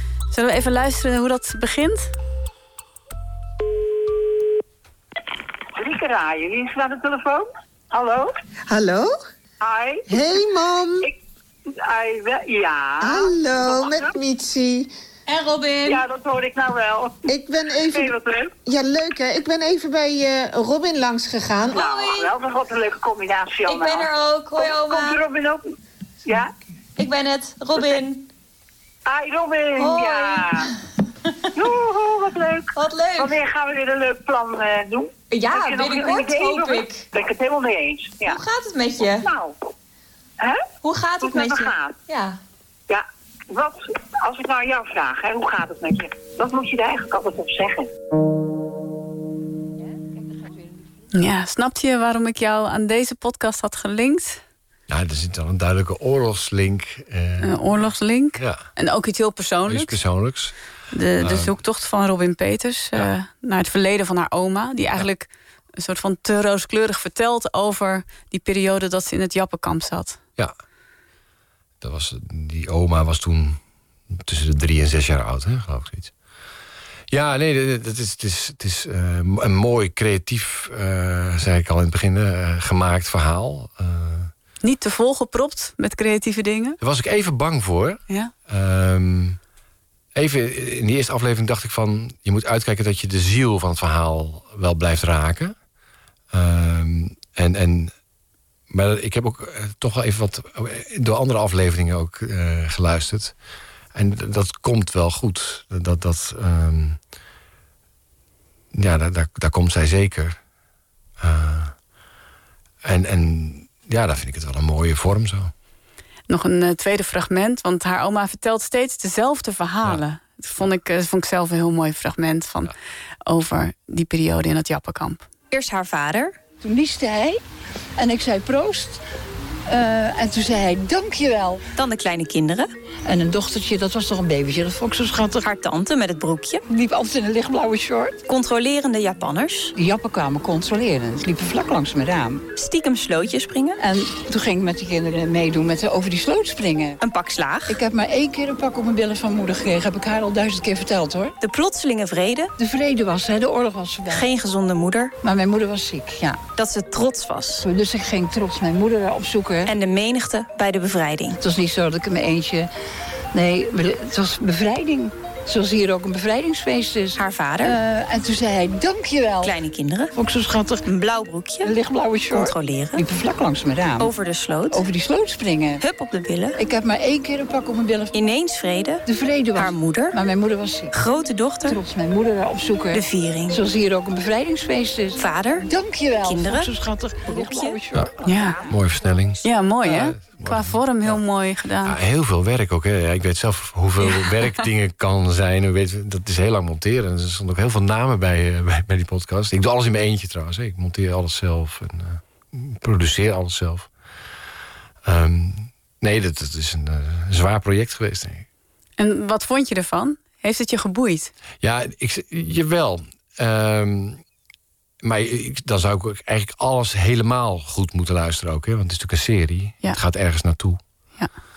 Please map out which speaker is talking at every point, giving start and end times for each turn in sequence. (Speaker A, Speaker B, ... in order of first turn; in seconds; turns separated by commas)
Speaker A: 0.3-2.1, Speaker B: 5.8-8.3, Speaker C: 8.7-9.1, Speaker B: 9.6-10.1, Speaker C: 10.1-11.1, Speaker B: 11.8-14.1, Speaker C: 13.0-14.9, Speaker D: 15.3-16.1, Speaker B: 15.8-17.2, Speaker C: 17.2-21.8, Speaker B: 17.8-18.5, Speaker D: 21.7-22.3, Speaker B: 21.7-25.6, Speaker D: 23.6-25.2, Speaker B: 26.2-26.5, Speaker D: 27.0-28.3, Speaker B: 29.1-30.7, Speaker D: 29.8-30.7, Speaker B: 31.5-38.4, Speaker D: 32.7-33.4, Speaker D: 35.3-37.0, Speaker D: 38.2-39.3, Speaker B: 39.1-39.5, Speaker B: 40.4-40.7, Speaker D: 40.8-42.4, Speaker B: 41.2-42.0, Speaker B: 42.9-47.9, Speaker A: 51.1-54.4, Speaker E: 54.9-57.6, Speaker A: 57.4-60.0, Speaker E: 58.4-58.6, Speaker E: 59.7-60.5, Speaker A: 60.9-70.2, Speaker E: 61.2-61.5, Speaker E: 71.8-73.6, Speaker E: 74.1-76.1, Speaker E: 77.1-84.3, Speaker A: 84.6-86.8, Speaker E: 86.8-89.4, Speaker E: 90.1-95.5, Speaker E: 96.3-97.9, Speaker E: 98.7-103.3, Speaker E: 103.9-107.0, Speaker E: 108.7-110.4, Speaker E: 111.2-111.7, Speaker E: 112.8-115.5, Speaker A: 116.3-122.7, Speaker A: 123.2-125.3, Speaker F: 125.5-126.3, Speaker G: 126.6-127.4, Speaker G: 128.0-129.0, Speaker G: 129.7-131.6, Speaker F: 131.7-132.7, Speaker G: 133.0-135.4, Speaker F: 135.4-136.6, Speaker G: 136.7-138.2, Speaker F: 138.2-139.7, Speaker G: 139.7-142.4, Speaker F: 142.5-143.8, Speaker G: 143.8-147.0, Speaker F: 147.0-147.8, Speaker G: 147.7-151.3, Speaker F: 151.4-152.5, Speaker G: 152.6-154.3, Speaker F: 154.1-155.1, Speaker G: 155.2-156.4, Speaker F: 156.6-157.7, Speaker G: 157.6-159.7, Speaker F: 159.6-161.4, Speaker G: 161.4-162.7, Speaker G: 163.3-169.6, Speaker F: 167.2-167.8, Speaker F: 169.4-170.1, Speaker G: 170.1-170.8, Speaker F: 170.8-171.7, Speaker G: 171.6-174.1, Speaker F: 172.3-173.1, Speaker F: 174.0-174.8, Speaker G: 174.7-175.8, Speaker F: 175.8-176.6, Speaker G: 176.6-178.2, Speaker F: 178.1-179.0, Speaker G: 179.1-181.0, Speaker F: 179.5-180.2, Speaker F: 180.9-181.8, Speaker G: 181.6-188.8, Speaker F: 182.9-183.6, Speaker F: 185.2-185.7, Speaker F: 186.2-188.6, Speaker A: 188.2-188.6, Speaker E: 188.7-191.2, Speaker A: 189.4-191.9, Speaker E: 191.8-203.9, Speaker E: 205.0-208.4, Speaker A: 209.0-211.3, Speaker E: 211.6-214.2, Speaker E: 215.0-220.8